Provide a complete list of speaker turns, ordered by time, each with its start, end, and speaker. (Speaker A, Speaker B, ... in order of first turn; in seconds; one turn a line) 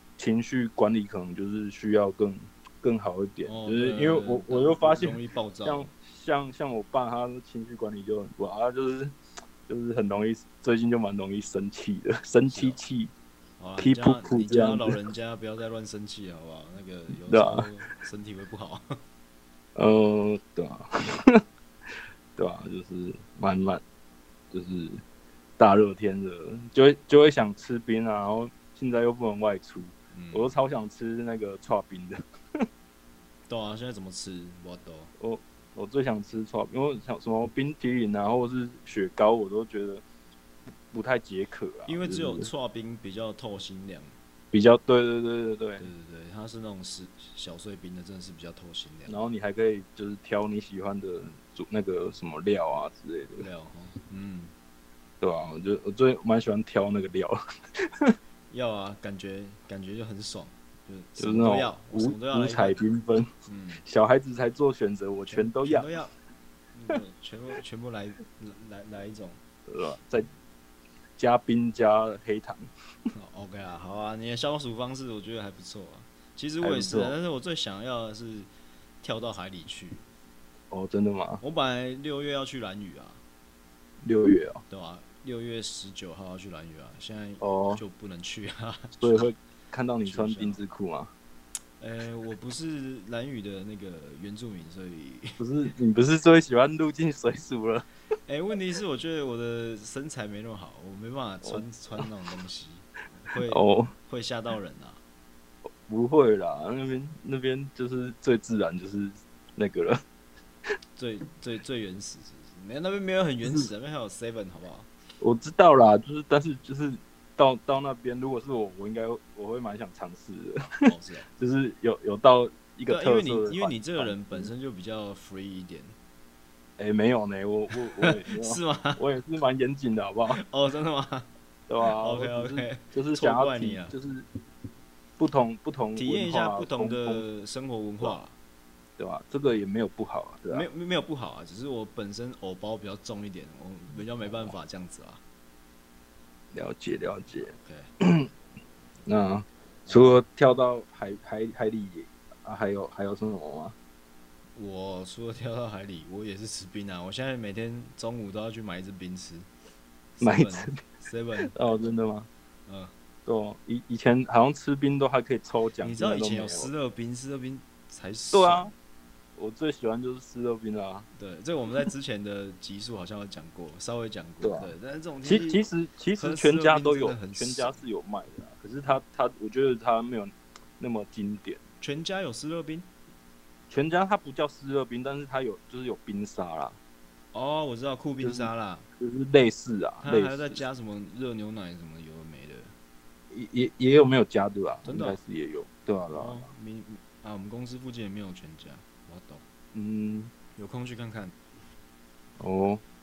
Speaker A: 0.2-9.1
Speaker B: 3.5-5.9
Speaker A: 9.7-13.1
Speaker B: 12.5-12.8
Speaker B: 13.6-18.8
Speaker A: 13.8-15.0
Speaker A: 17.3-17.7
Speaker A: 19.8-21.4
Speaker A: 22.4-23.8
Speaker A: 24.5-25.0
Speaker A: 25.6-32.2
Speaker B: 30.1-30.5
Speaker B: 33.5-35.1
Speaker A: 35.2-40.0
Speaker A: 40.9-42.5
Speaker B: 41.9-44.1
Speaker A: 44.5-45.9
Speaker B: 45.8-49.2
Speaker A: 49.1-53.5
Speaker B: 53.3-54.5
Speaker A: 55.2-58.1
Speaker B: 58.5-62.8
Speaker A: 61.2-63.3
Speaker B: 63.5-63.8
Speaker A: 63.8-65.9
Speaker B: 65.3-66.1
Speaker B: 66.7-69.4
Speaker A: 69.7-70.3
Speaker A: 71.2-72.6
Speaker B: 73.1-78.5
Speaker A: 76.6-77.1
Speaker B: 79.0-80.0
Speaker A: 80.7-81.4
Speaker B: 81.4-83.2
Speaker A: 84.0-84.6
Speaker B: 84.7-89.3
Speaker A: 87.4-87.8
Speaker A: 89.0-91.1
Speaker B: 90.0-90.6
Speaker B: 91.8-95.4
Speaker A: 95.4-97.8
Speaker B: 98.3-105.0
Speaker A: 101.4-102.0
Speaker A: 103.5-103.9
Speaker A: 105.9-110.0
Speaker B: 111.0-114.9
Speaker A: 115.2-120.8
Speaker B: 120.8-121.3
Speaker A: 121.4-124.5
Speaker B: 122.9-126.0
Speaker A: 126.8-130.4
Speaker B: 127.8-129.0
Speaker B: 130.3-131.3
Speaker A: 131.7-134.2
Speaker B: 131.8-133.9
Speaker A: 135.2-137.2
Speaker B: 135.9-138.3
Speaker A: 139.0-140.7
Speaker B: 140.5-145.2
Speaker A: 144.2-144.5
Speaker A: 146.5-148.3
Speaker B: 147.5-147.9
Speaker A: 149.1-153.8
Speaker B: 149.8-150.2
Speaker B: 154.6-159.5
Speaker B: 160.2-161.5
Speaker A: 160.2-160.9
Speaker A: 161.4-162.3
Speaker B: 162.7-162.9
Speaker A: 163.2-166.7
Speaker B: 165.8-168.7
Speaker A: 168.3-168.7
Speaker A: 169.3-171.1
Speaker B: 171.2-175.6
Speaker A: 174.4-174.7
Speaker A: 175.2-181.6
Speaker B: 176.2-177.8
Speaker B: 181.8-182.9
Speaker A: 183.7-186.8
Speaker B: 187.3-188.8
Speaker A: 188.2-190.6
Speaker B: 190.0-192.7
Speaker A: 193.3-196.5
Speaker B: 194.8-195.2
Speaker B: 196.1-199.4
Speaker A: 199.7-200.3
Speaker B: 200.6-201.3
Speaker A: 202.4-202.8